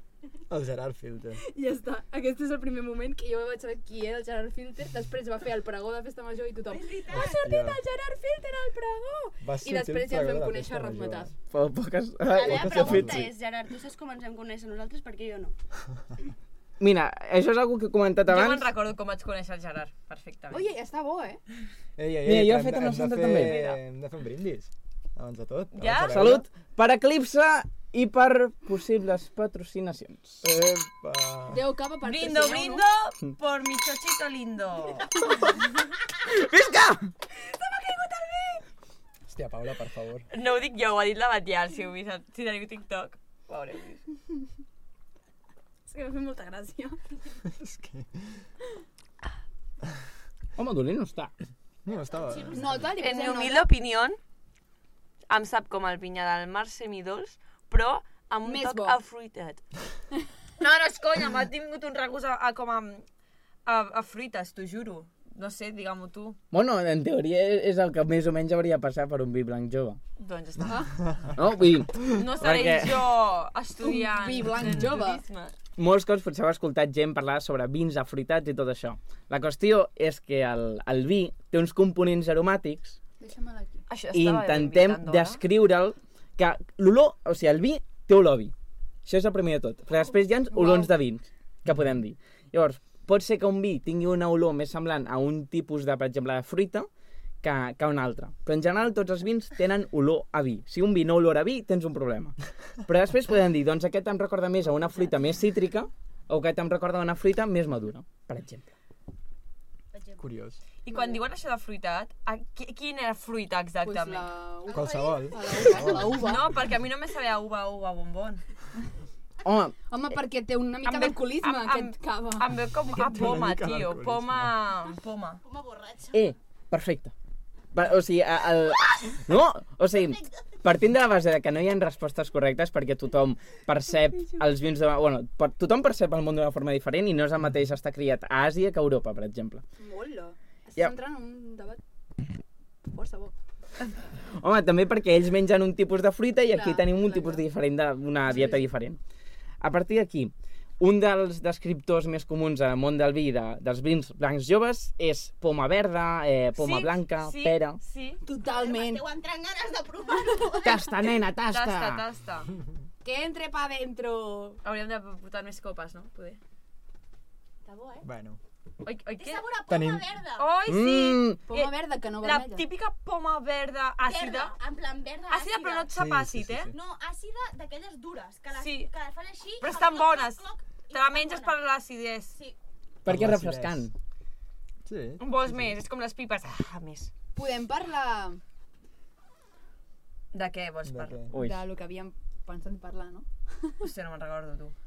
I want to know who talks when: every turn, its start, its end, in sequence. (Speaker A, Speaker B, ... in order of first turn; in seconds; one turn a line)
Speaker A: 0.5-1.4
Speaker B: 1.4-11.3
Speaker C: 6.7-7.4
Speaker A: 7.1-7.8
Speaker A: 9.4-11.3
Speaker D: 11.5-13.3
Speaker C: 12.3-15.5
Speaker A: 12.5-13.3
Speaker D: 16.8-18.7
Speaker E: 18.3-20.7
Speaker B: 20.5-21.4
Speaker A: 22.0-26.5
Speaker D: 22.2-23.8
Speaker E: 25.8-26.3
Speaker D: 26.1-30.4
Speaker A: 30.4-31.6
Speaker B: 31.5-32.9
Speaker E: 32.0-35.2
Speaker D: 36.2-37.1
Speaker B: 37.4-38.6
Speaker A: 39.3-40.3
Speaker E: 40.3-44.0
Speaker B: 45.9-47.0
Speaker A: 47.5-48.4
Speaker D: 50.6-51.3
Speaker A: 51.9-52.9
Speaker C: 51.9-52.9
Speaker B: 52.5-53.7
Speaker E: 53.0-54.2
Speaker E: 55.3-59.6
Speaker B: 58.5-59.0
Speaker E: 60.6-63.0
Speaker E: 63.7-66.4
Speaker D: 66.5-70.0
Speaker E: 70.2-70.9
Speaker B: 70.7-70.9
Speaker D: 71.4-73.1
Speaker E: 72.1-75.5
Speaker B: 73.8-75.2
Speaker D: 75.8-83.0
Speaker B: 83.2-83.8
Speaker E: 83.9-85.4
Speaker D: 84.1-88.5
Speaker D: 89.1-96.9
Speaker B: 90.5-90.9
Speaker D: 97.4-108.7
Speaker C: 109.9-110.2
Speaker A: 110.2-110.6
Speaker E: 110.8-114.3
Speaker B: 110.9-111.2
Speaker B: 113.8-116.5
Speaker A: 114.7-116.6
Speaker C: 114.7-116.0
Speaker E: 116.0-118.4
Speaker D: 119.4-119.8
Speaker B: 119.9-122.5
Speaker E: 120.8-125.4
Speaker A: 122.9-124.5
Speaker C: 125.4-126.2
Speaker D: 126.1-127.1
Speaker D: 127.7-139.6
Speaker C: 130.1-130.5
Speaker B: 139.8-141.8
Speaker B: 142.8-143.3
Speaker D: 144.3-149.0
Speaker B: 146.5-147.4
Speaker B: 148.3-148.7
Speaker D: 149.6-157.8
Speaker E: 156.6-158.2
Speaker B: 158.2-159.1
Speaker C: 158.4-161.0
Speaker D: 160.6-162.0
Speaker E: 161.5-162.5
Speaker B: 163.0-164.6
Speaker E: 164.6-166.4
Speaker C: 167.7-168.1
Speaker A: 168.0-168.4
Speaker E: 168.8-169.5
Speaker C: 169.2-170.5
Speaker A: 169.7-170.1
Speaker E: 170.4-174.6
Speaker D: 170.7-171.4
Speaker B: 171.5-172.7
Speaker C: 174.0-175.9
Speaker E: 175.3-176.7
Speaker A: 175.9-176.8
Speaker C: 176.7-181.6
Speaker E: 178.6-178.9
Speaker E: 179.6-182.3
Speaker C: 182.3-182.6
Speaker D: 183.1-183.9
Speaker A: 183.1-183.9
Speaker A: 184.9-185.7
Speaker E: 185.2-187.1
Speaker B: 187.3-188.4
Speaker E: 190.3-191.2
Speaker A: 190.8-191.3
Speaker D: 191.3-191.6
Speaker B: 191.3-193.8
Speaker E: 193.8-194.7